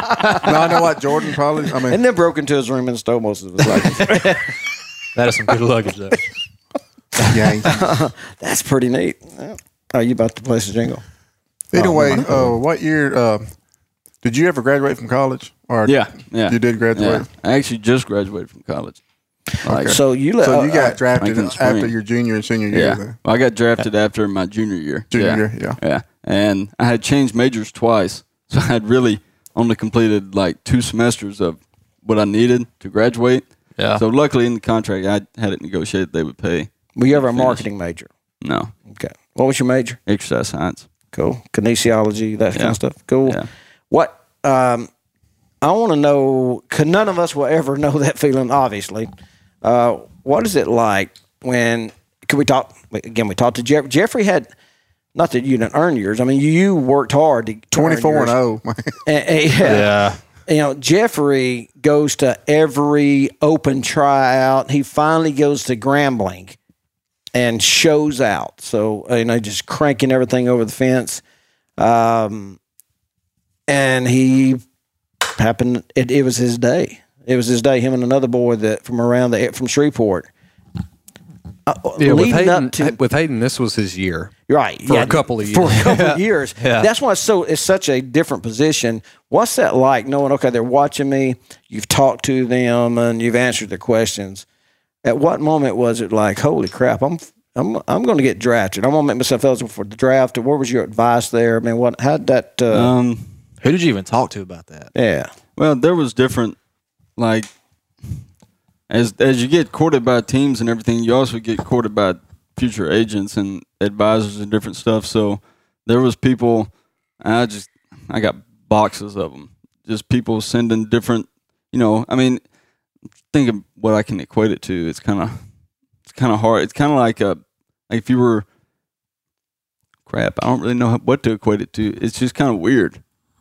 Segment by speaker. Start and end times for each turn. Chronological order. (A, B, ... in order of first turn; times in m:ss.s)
0:00.4-0:02.0 A
0:01.9-0:04.5 B
0:03.8-0:04.2 C
0:05.2-0:06.2 C
0:07.3-0:07.9 A
0:07.6-0:11.0 B
0:11.7-0:13.4 A
0:11.8-0:12.3 B
0:12.0-0:12.4 C
0:14.2-0:17.3 A
0:15.8-0:19.0 D
0:19.6-0:20.0 D
0:19.6-0:23.2 A
0:19.9-0:21.0 B
0:21.2-0:22.0 D
0:22.7-0:37.7 D
0:25.1-0:25.8 A
0:33.8-0:34.0 C
0:37.0-0:38.1 B
0:38.4-0:38.7 D
0:38.9-0:40.0 B
0:40.1-0:40.9 D
0:41.1-0:43.4 B
0:42.5-0:43.5 D
0:43.9-0:44.9 B
0:45.6-0:49.1 B
0:49.6-0:54.5 B
0:55.2-0:58.4 B
0:57.7-0:59.0 A
0:59.1-1:06.6 B
0:59.6-1:00.2 C
1:07.3-1:11.2 B
1:11.8-1:12.6 B
1:13.7-1:14.6 B
1:15.4-1:20.3 B
1:21.7-1:23.0 B
1:22.0-1:24.3 E
1:24.5-1:34.4 B
1:24.8-1:26.2 E
1:26.6-1:26.9 C
1:35.0-1:42.9 B
1:42.7-1:43.3 D
1:43.6-1:44.9 C
1:44.9-1:45.3 B
1:45.6-1:46.6 D
1:47.2-1:47.5 D
1:48.9-1:56.7 D
1:57.2-2:02.4 D
2:03.3-2:05.4 D
2:06.1-2:08.4 D
2:10.1-2:13.0 D